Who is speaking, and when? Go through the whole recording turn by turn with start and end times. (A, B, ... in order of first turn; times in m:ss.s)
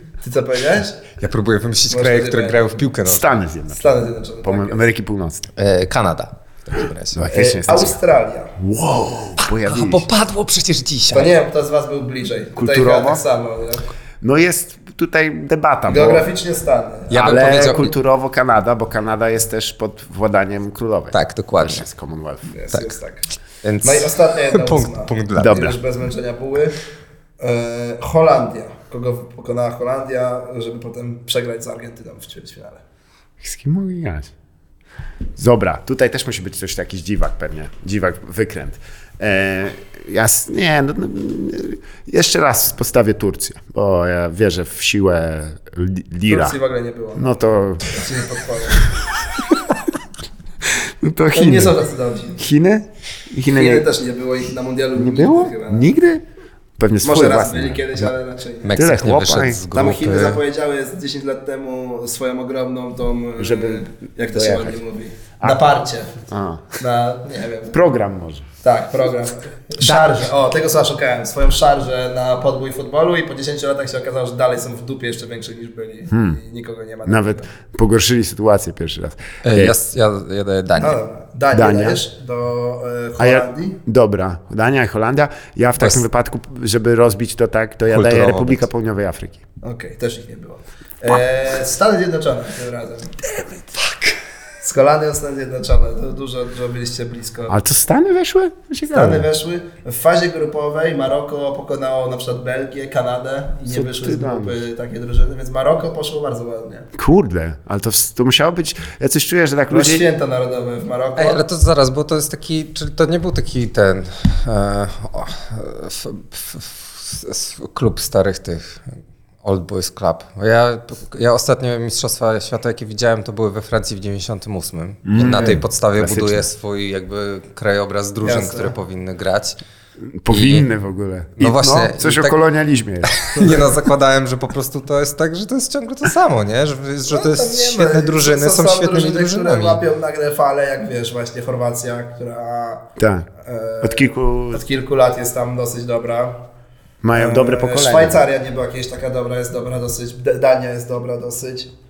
0:00.2-0:01.0 A
0:01.2-0:03.4 B
0:01.9-0:02.8 A
0:03.0-0:03.9 C
0:03.7-0:04.8 A
0:04.4-0:05.5 C
0:05.6-0:07.2 B
0:07.1-0:08.0 C
0:07.3-0:08.5 A
0:08.6-0:10.1 C
0:09.6-0:11.3 B
0:11.1-0:13.8 A
0:12.6-0:13.2 C
0:14.2-0:16.3 C
0:15.9-0:17.3 A
0:17.1-0:17.9 B
0:17.1-0:22.5 C
0:21.1-0:21.8 B
0:22.5-0:23.2 A
0:23.6-0:25.7 B
0:23.8-0:26.8 A
0:25.4-0:25.7 C
0:27.4-0:32.8 A
0:33.4-0:34.3 C
0:35.4-0:46.6 C
0:46.3-0:48.9 A
0:47.1-0:48.0 C
0:50.7-0:51.8 C
0:51.3-0:52.4 A
0:52.4-0:53.9 C
0:53.5-0:55.9 A
0:54.9-0:56.2 C
0:56.8-0:58.0 C
0:57.0-0:58.8 A
0:58.6-1:00.4 B
0:58.7-0:59.6 C
0:59.7-1:06.1 A
1:03.4-1:04.8 C
1:06.2-1:06.8 C
1:06.8-1:07.8 A
1:07.7-1:08.4 C
1:08.6-1:17.5 A
1:09.8-1:10.2 B
1:16.1-1:16.4 C
1:17.0-1:19.8 C
1:19.4-1:21.0 B
1:20.8-1:23.8 A
1:21.5-1:22.0 C
1:23.2-1:29.4 C
1:27.9-1:28.6 B
1:29.6-1:33.2 A
1:34.6-1:37.6 A
1:37.5-1:39.2 C
1:38.9-1:46.9 A
1:43.7-1:44.6 C
1:46.9-1:50.0 C
1:49.7-1:51.4 A
1:51.2-1:58.8 B
1:59.4-2:09.6 B
2:05.0-2:06.4 C
2:08.2-2:08.7 A
2:10.0-2:13.6 C
2:10.3-2:10.7 B
2:11.4-2:12.4 B
2:13.1-2:19.8 B
2:17.1-2:22.8 A
2:23.0-2:23.3 C
2:23.4-2:26.4 A
2:23.8-2:24.6 C
2:27.0-2:28.2 C
2:27.1-2:31.7 A